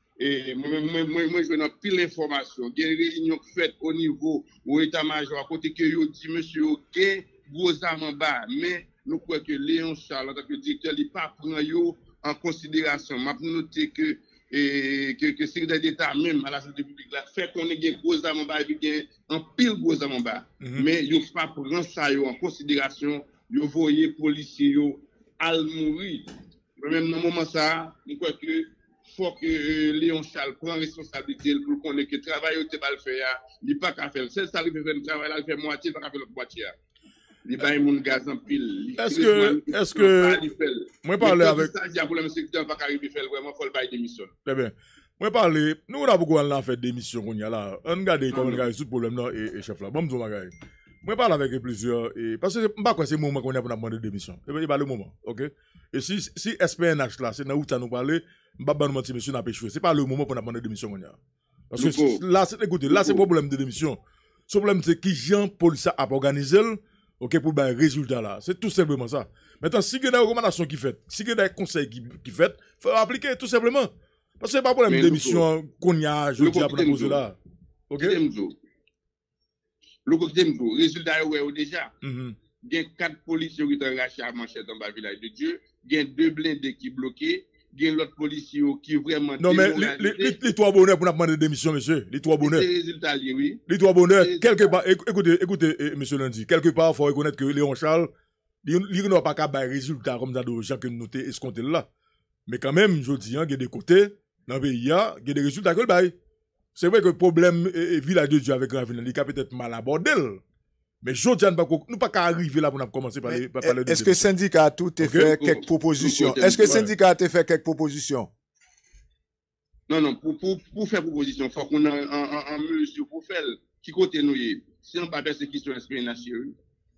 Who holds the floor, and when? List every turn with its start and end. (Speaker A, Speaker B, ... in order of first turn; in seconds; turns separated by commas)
Speaker A: 0.2-36.8, Speaker B: 20.6-20.9, Speaker A: 37.5-44.3, Speaker B: 39.0-40.4, Speaker B: 41.0-41.7, Speaker B: 44.5-61.2, Speaker A: 48.3-48.6, Speaker B: 61.7-77.4, Speaker A: 61.8-62.2, Speaker A: 62.9-63.3, Speaker A: 74.9-75.5, Speaker A: 76.4-77.2, Speaker B: 77.9-78.2, Speaker A: 78.0-78.5, Speaker A: 80.1-81.9, Speaker B: 82.0-82.4, Speaker A: 82.6-90.4, Speaker B: 89.4-92.7, Speaker A: 92.4-93.6, Speaker B: 93.7-98.1, Speaker A: 94.2-94.8, Speaker B: 98.7-101.9, Speaker B: 102.5-106.1, Speaker B: 106.8-110.4, Speaker B: 111.0-114.3, Speaker C: 113.3-118.3, Speaker B: 115.0-115.4, Speaker A: 115.2-116.8, Speaker B: 116.6-116.9, Speaker A: 119.9-126.5